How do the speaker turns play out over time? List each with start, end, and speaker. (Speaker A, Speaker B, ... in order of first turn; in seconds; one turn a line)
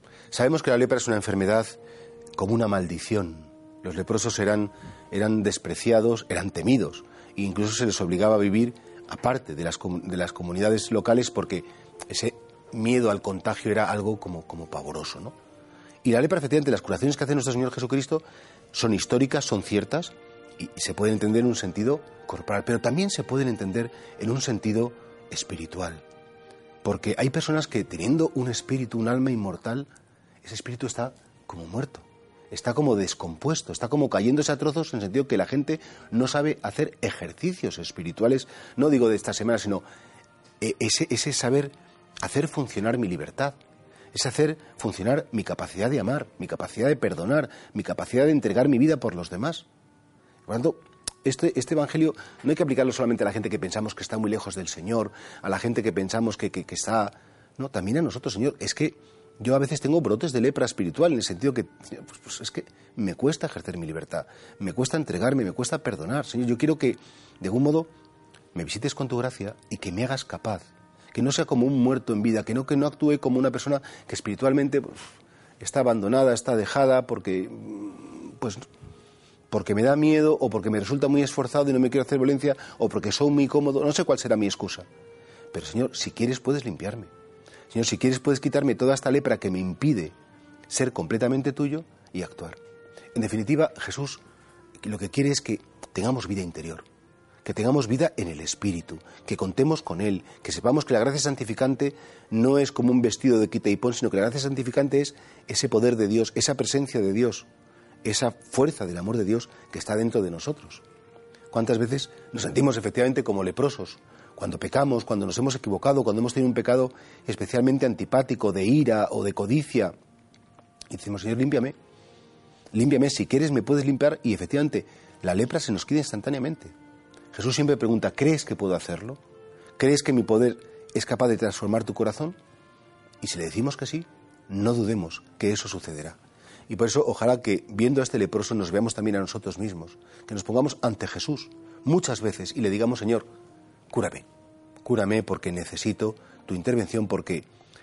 Speaker A: 0.3-1.8
Speaker A: 2.4-15.3
Speaker A: 16.0-26.0
Speaker A: 26.8-29.9
Speaker A: 30.4-39.8
Speaker A: 40.6-43.6
Speaker A: 44.1-49.7
Speaker A: 50.5-67.9
Speaker A: 68.5-75.1
Speaker A: 75.6-78.7
Speaker A: 79.5-84.9
Speaker A: 85.5-87.1
Speaker A: 87.7-90.1
Speaker A: 90.7-92.6
Speaker A: 93.1-94.2
Speaker A: 94.8-96.9
Speaker A: 97.4-107.5
Speaker A: 108.0-110.8
Speaker A: 111.5-119.9
Speaker A: 120.9-121.8
Speaker A: 122.7-126.7
Speaker A: 127.3-129.2
Speaker A: 129.8-132.4
Speaker A: 133.2-143.3
Speaker A: 143.9-144.3
Speaker A: 144.8-147.4